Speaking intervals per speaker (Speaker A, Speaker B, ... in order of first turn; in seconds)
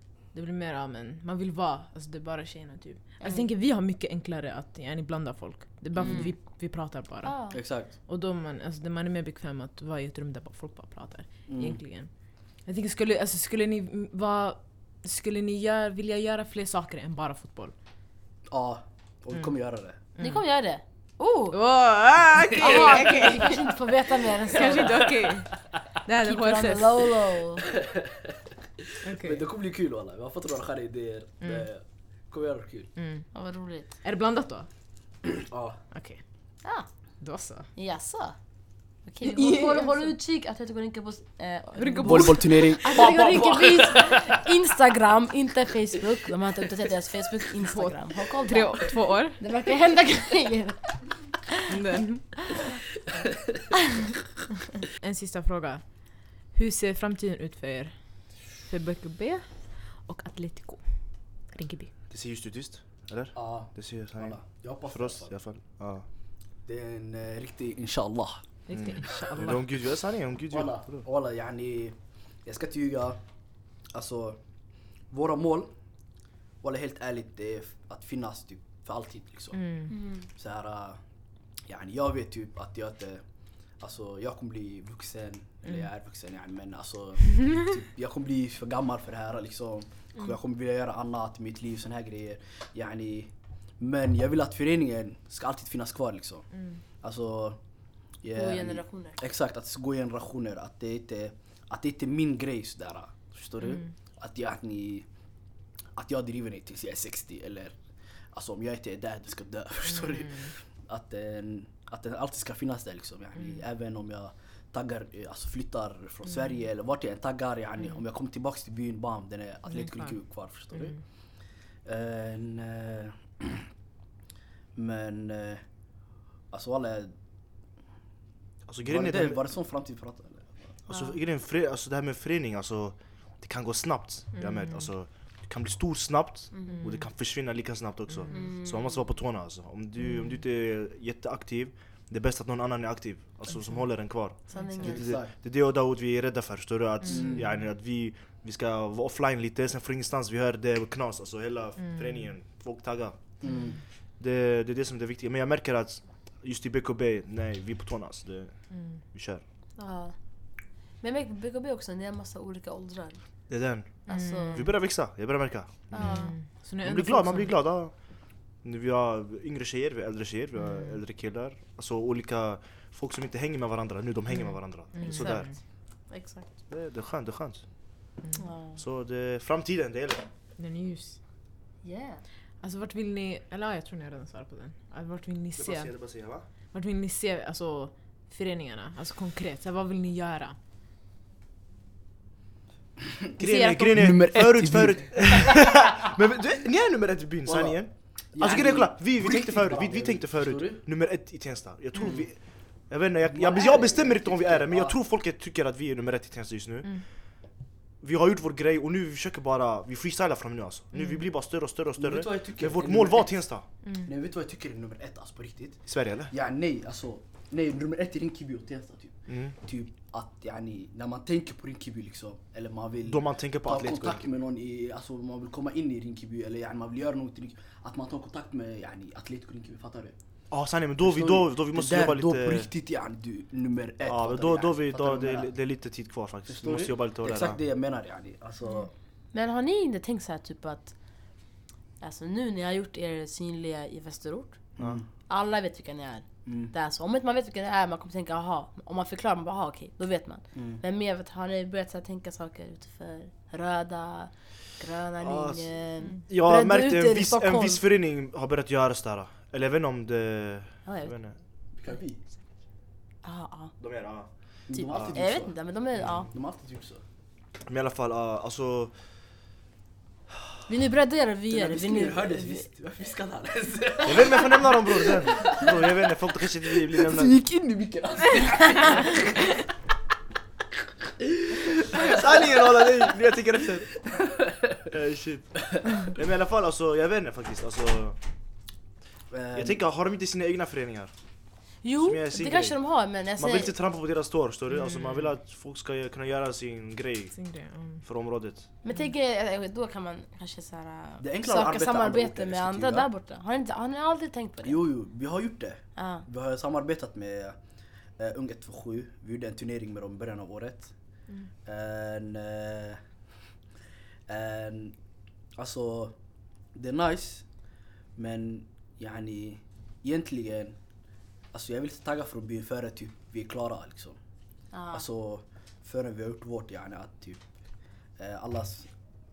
Speaker A: 0.3-17.7, 20.2-20.4, 21.5-27.1, 29.0-29.4, 31.4-31.6, 33.0-33.3, 33.9-34.7, 35.9-36.2, 37.2-37.7, 39.2-40.1, 41.8-43.5, 47.6-49.4, 51.7-52.5, 55.0-61.9, 68.7-69.6, 79.5-79.9, 103.6-103.9, 119.7-120.2, 134.3-134.9, 136.7-137.0, 138.1-138.5, 140.0-140.4, 143.5-144.8, 147.0-147.6, 151.8-152.3, 153.4-153.8, 158.7-159.0, 164.1-164.7, 165.9-167.5, 170.5-171.0, 174.3-175.6, 180.6-181.2, 182.6-186.0, 186.7-190.6, 193.4-194.2, 210.9-211.2, 213.8-214.1, 294.7-295.3, 297.3-298.0
Speaker B: 3.2-3.5, 6.0-6.3, 7.2-7.6, 20.2-21.6, 22.6-25.1, 26.2-27.6, 33.3-33.9, 37.7-38.4, 39.0-51.4, 79.9-80.3, 98.3-99.2, 130.9-131.2, 136.5-136.9, 138.3-139.1, 144.5-145.1, 159.8-160.2, 161.0-164.6, 165.9-166.3, 175.0-175.5, 176.1-176.5, 178.4-178.8, 181.8-182.2, 239.3-241.0, 242.0-244.6, 245.3-257.8, 260.8-261.1, 263.2-263.7, 264.7-266.3, 270.7-272.6, 291.8-293.7, 298.8-304.8, 305.9-306.2, 324.7-325.1
Speaker C: 6.0-6.3, 7.5-7.9, 11.5-11.8, 18.5-20.0, 24.6-25.8, 27.7-32.9, 35.3-35.8, 42.0-44.4, 63.3-65.3, 66.6-68.5, 70.5-73.2, 73.9-74.4, 75.1-75.7, 76.6-81.0, 81.7-83.2, 83.8-97.6, 98.2-105.1, 106.0-107.8, 108.3-121.1, 121.8-123.6, 124.8-125.6, 126.5-127.1, 128.8-130.8, 144.8-145.3, 147.1-147.4, 153.4-153.8, 193.9-195.5, 197.4-200.8, 202.0-202.4, 203.3-205.0, 212.0-213.4, 214.0-230.2, 231.0-235.5, 236.5-238.9, 244.8-245.1, 246.4-246.7, 250.5-250.8, 261.7-262.2, 264.7-267.0, 271.5-275.8, 276.8-279.3, 281.2-283.1, 284.2-284.8, 289.3-289.8, 301.2-303.1, 304.6-307.6, 308.2-310.9, 311.6-313.0, 314.3-314.9, 315.6-316.1, 316.7-317.5, 318.1-320.8, 321.5-324.2, 324.9-327.4, 328.2-328.9
Speaker D: 62.1-66.0, 68.7-71.0, 128.7-129.4, 130.9-159.4, 163.5-166.3, 166.8-175.5, 176.7-177.7, 178.8-180.3, 185.6-186.4, 193.4-207.4, 208.0-213.7, 215.9-216.3, 219.3-219.5, 223.1-224.2, 230.5-232.7, 234.0-237.6, 244.8-245.0, 255.2-255.7, 256.3-261.4, 263.8-265.1, 267.7-268.9, 274.0-277.4, 281.9-284.1, 284.9-288.2, 289.5-291.1, 292.0-292.8, 293.4-297.4, 298.0-298.7